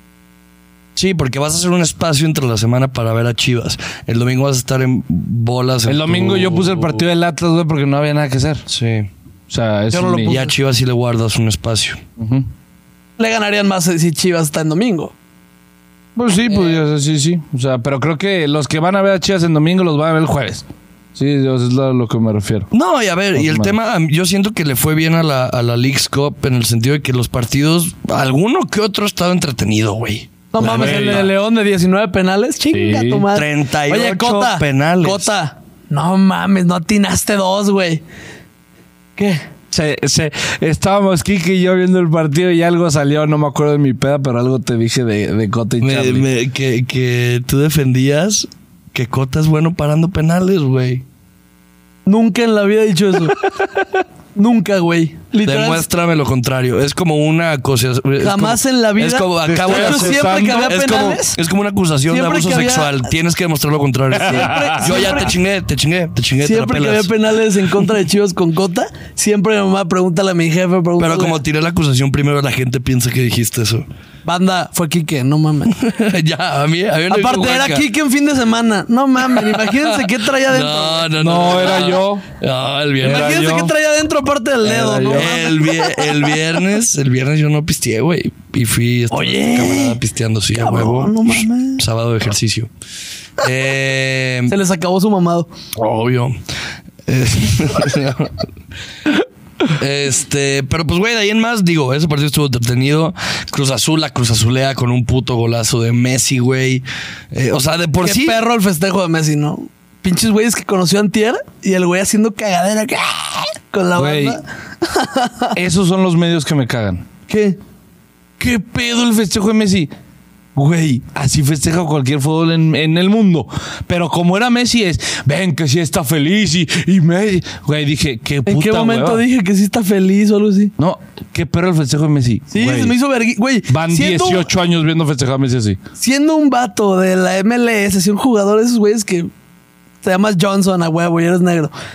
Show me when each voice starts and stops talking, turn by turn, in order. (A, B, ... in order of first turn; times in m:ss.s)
0:01.0-0:07.0 A
0:05.8-0:08.6 B
0:08.7-0:09.1 A
0:09.5-0:10.4 B
0:09.9-0:10.5 C
0:10.3-0:12.0 A
0:12.2-0:12.5 B
0:13.2-0:15.1 C
0:16.1-0:22.7 B
0:22.7-0:31.3 A
0:23.3-0:23.7 B
0:30.5-0:38.0 C
0:30.6-0:31.3 B
0:32.7-0:33.2 B
0:33.3-0:35.3 A
0:39.2-0:39.4 C
0:39.7-0:46.3 B
0:45.8-0:51.0 A
0:52.0-0:53.4 C
0:54.3-0:55.8 C
0:55.4-1:07.8 A
0:58.2-1:01.4 C
0:59.4-1:01.0 B
1:02.1-1:03.0 C
1:04.2-1:05.3 C
1:04.2-1:05.2 B
1:06.4-1:11.4 C
1:11.0-1:13.8 A
1:14.2-1:15.8 C
1:15.7-1:17.9 A
1:17.1-1:21.1 C
1:19.3-1:23.4 A
1:21.2-1:22.2 B
1:23.0-1:23.7 B
1:23.0-1:26.3 C
1:24.6-1:25.3 B
1:25.0-1:32.7 A
1:29.1-1:30.0 C
1:30.5-1:31.8 C
1:33.4-1:34.5 A
1:34.5-1:35.5 C
1:35.8-1:36.4 A
1:37.1-1:38.4 A
1:39.7-1:48.4 A
1:48.0-1:55.5 C
1:54.0-1:54.4 B
1:55.5-1:57.0 B
1:57.3-1:57.6 C
1:58.4-1:59.9 B
2:00.5-2:09.2 B
2:08.4-2:10.7 C
2:10.8-2:13.0 B
2:12.5-2:14.5 C
2:13.7-2:15.8 B
2:16.0-2:19.3 C
2:20.0-2:21.7 C